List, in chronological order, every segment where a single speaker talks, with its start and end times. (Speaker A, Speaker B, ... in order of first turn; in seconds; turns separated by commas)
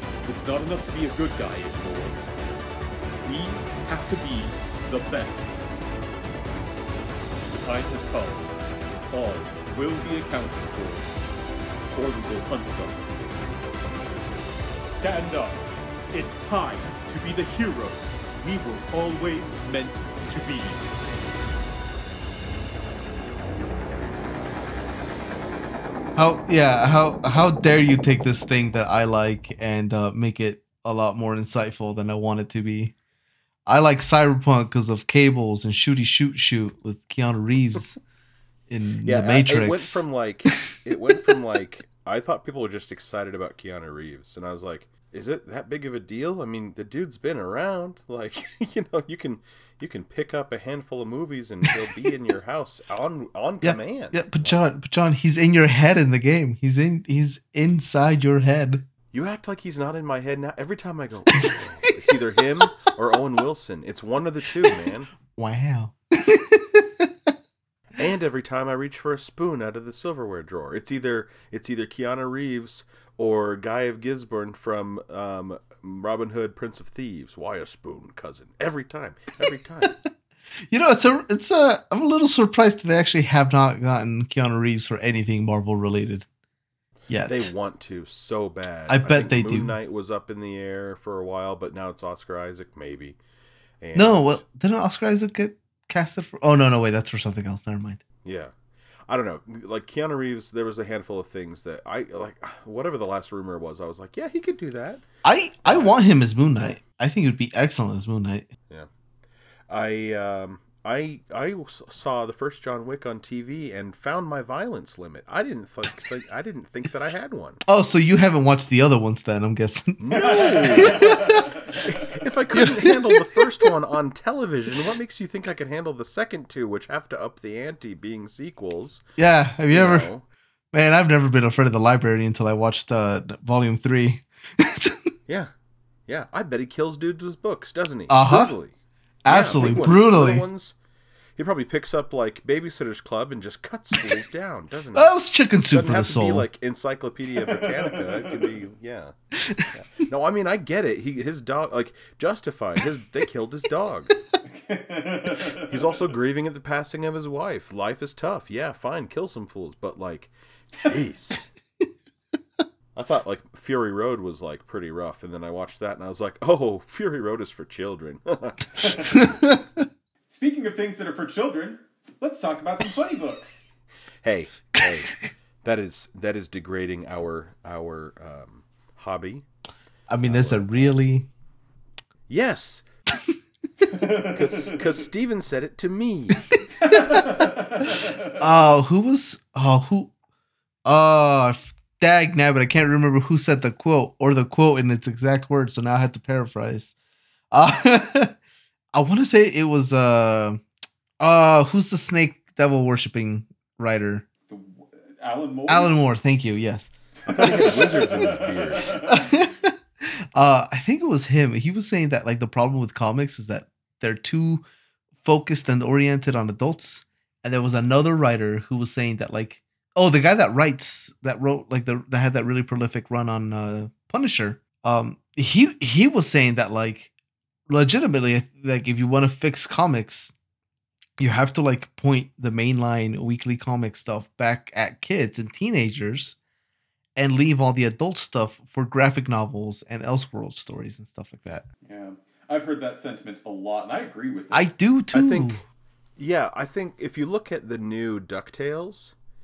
Speaker A: 0.2-2.2, Speaker A: 3.2-5.6, Speaker A: 7.5-8.5, Speaker A: 9.1-11.1, Speaker A: 11.9-13.2, Speaker A: 14.7-20.9, Speaker B: 26.1-32.9, Speaker B: 33.7-38.0, Speaker B: 38.7-40.0, Speaker C: 39.0-54.6, Speaker B: 53.6-58.8, Speaker C: 59.1-65.1, Speaker B: 65.3-67.1, Speaker C: 68.0-80.0, Speaker B: 79.8-80.1, Speaker B: 80.7-86.2, Speaker B: 87.1-87.5, Speaker C: 87.2-93.2, Speaker B: 88.9-89.8, Speaker C: 93.8-94.3, Speaker B: 93.9-98.0, Speaker C: 98.2-98.5, Speaker C: 99.1-105.0, Speaker B: 105.2-108.5, Speaker C: 105.6-106.0, Speaker C: 109.7-117.6, Speaker B: 117.7-121.5, Speaker C: 120.0-129.0, Speaker A: 120.1-122.0, Speaker B: 122.5-123.7, Speaker B: 129.2-130.1, Speaker C: 129.7-130.2, Speaker B: 130.7-135.1, Speaker C: 136.1-138.7, Speaker B: 138.1-138.5, Speaker B: 139.2-140.5, Speaker C: 139.3-140.7, Speaker C: 141.4-145.2, Speaker B: 144.9-146.4, Speaker C: 145.7-149.2, Speaker A: 147.4-148.5, Speaker B: 149.4-149.7, Speaker C: 149.7-154.1, Speaker A: 154.5-155.9, Speaker C: 155.6-161.4, Speaker C: 162.9-169.4, Speaker A: 168.8-169.2, Speaker B: 169.1-169.8, Speaker A: 170.3-173.7, Speaker C: 174.2-179.4, Speaker B: 180.1-181.3, Speaker C: 180.2-180.9, Speaker C: 182.3-182.8, Speaker A: 183.9-184.9, Speaker C: 184.2-186.4, Speaker A: 186.7-188.4, Speaker B: 186.9-187.2, Speaker B: 188.4-190.1, Speaker B: 190.8-196.9, Speaker B: 197.5-198.3, Speaker B: 198.9-200.6, Speaker B: 201.2-204.3, Speaker A: 204.5-205.9, Speaker B: 205.7-207.9, Speaker A: 207.2-209.3, Speaker C: 207.4-209.0, Speaker B: 209.1-214.6, Speaker B: 215.2-227.1, Speaker B: 227.7-230.3, Speaker B: 231.2-236.4, Speaker B: 237.2-241.7, Speaker A: 241.8-244.7, Speaker B: 244.5-245.6, Speaker C: 245.1-245.7, Speaker C: 246.2-249.2